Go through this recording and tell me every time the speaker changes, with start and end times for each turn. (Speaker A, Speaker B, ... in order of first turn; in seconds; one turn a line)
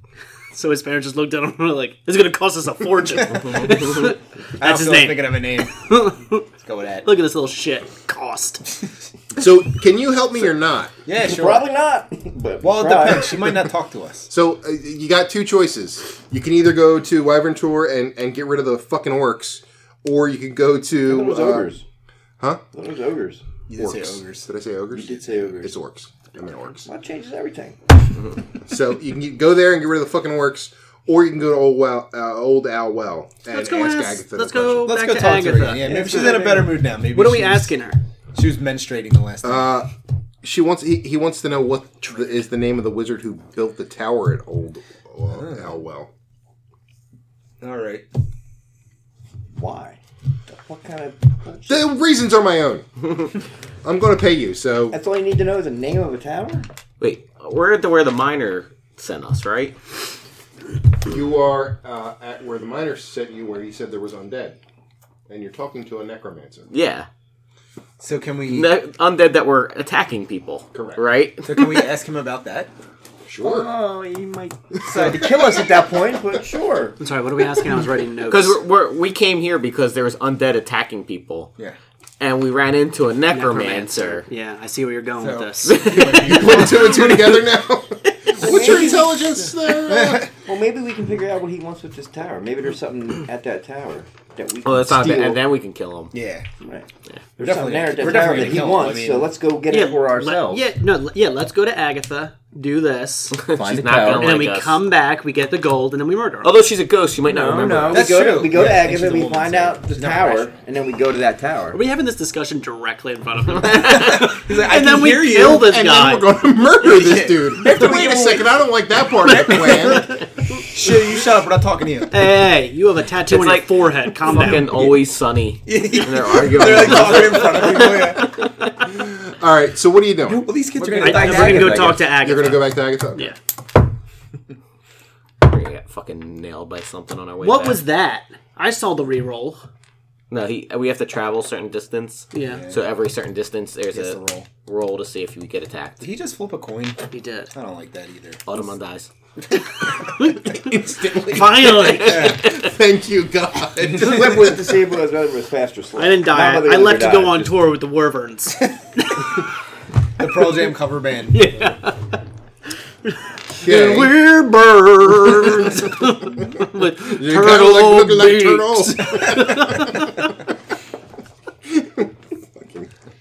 Speaker A: 0.5-6.5
Speaker B: 4.6-5.8
Speaker B: 6.6-7.1
Speaker A: 7.0-8.7
Speaker C: 9.4-10.9
Speaker B: 11.1-11.7
Speaker D: 11.2-13.6
Speaker B: 12.6-14.3
Speaker C: 14.3-21.7
Speaker D: 21.0-21.8
Speaker D: 22.7-23.4
Speaker B: 23.7-24.5
Speaker C: 23.8-26.9
Speaker D: 24.9-25.8
Speaker D: 26.9-27.8
Speaker C: 28.6-35.0
Speaker A: 33.5-38.0
Speaker B: 34.9-37.7
Speaker D: 35.8-36.8
Speaker B: 38.4-39.8
Speaker C: 39.4-39.9
Speaker C: 40.4-46.1
Speaker B: 45.3-45.7
Speaker B: 47.6-48.1
Speaker D: 49.5-51.9
Speaker C: 51.7-53.3
Speaker C: 53.8-55.0
Speaker D: 54.9-56.7
Speaker E: 57.0-59.8
Speaker C: 61.0-64.6
Speaker C: 65.3-66.7
Speaker E: 66.7-67.1
Speaker B: 68.0-68.7
Speaker E: 68.5-71.9
Speaker C: 70.7-71.0
Speaker B: 71.4-72.7
Speaker C: 73.3-73.7
Speaker D: 73.4-77.0
Speaker B: 74.9-75.7
Speaker A: 77.0-78.6
Speaker E: 78.3-81.5
Speaker E: 82.2-84.2
Speaker A: 83.3-85.8
Speaker B: 85.2-87.3
Speaker E: 85.7-86.8
Speaker C: 86.1-90.3
Speaker D: 88.4-89.5
Speaker B: 88.5-88.9
Speaker B: 89.8-90.3
Speaker D: 90.4-95.4
Speaker E: 94.6-96.1
Speaker B: 96.1-96.5
Speaker D: 96.6-100.6
Speaker B: 97.4-99.4
Speaker A: 99.7-103.4
Speaker E: 103.4-104.8
Speaker D: 103.5-104.4
Speaker A: 104.1-106.5
Speaker E: 106.4-108.2
Speaker D: 107.2-111.8
Speaker B: 107.9-110.5
Speaker A: 111.7-116.3
Speaker B: 113.7-115.6
Speaker C: 115.3-120.2
Speaker B: 116.8-118.5
Speaker A: 119.3-120.1
Speaker B: 119.4-122.2
Speaker A: 122.1-124.7
Speaker E: 123.3-128.4
Speaker B: 125.7-128.3
Speaker C: 128.9-130.5
Speaker B: 130.2-131.9
Speaker D: 130.8-132.0
Speaker A: 131.0-133.3
Speaker C: 131.6-133.3
Speaker E: 135.4-137.8
Speaker A: 137.4-139.6
Speaker E: 140.3-146.1
Speaker A: 142.3-142.6
Speaker B: 142.4-142.8
Speaker B: 143.9-144.5
Speaker B: 146.0-148.4
Speaker A: 147.1-147.5
Speaker E: 148.5-149.1
Speaker A: 150.2-150.7
Speaker C: 150.6-154.7
Speaker A: 151.2-152.3
Speaker E: 151.9-152.6
Speaker B: 152.0-152.4
Speaker D: 153.9-157.6
Speaker A: 156.0-159.3
Speaker B: 160.2-161.5
Speaker A: 161.3-162.2
Speaker A: 163.6-170.3
Speaker C: 163.6-164.3
Speaker C: 165.3-165.9
Speaker C: 167.0-170.1
Speaker C: 171.7-172.9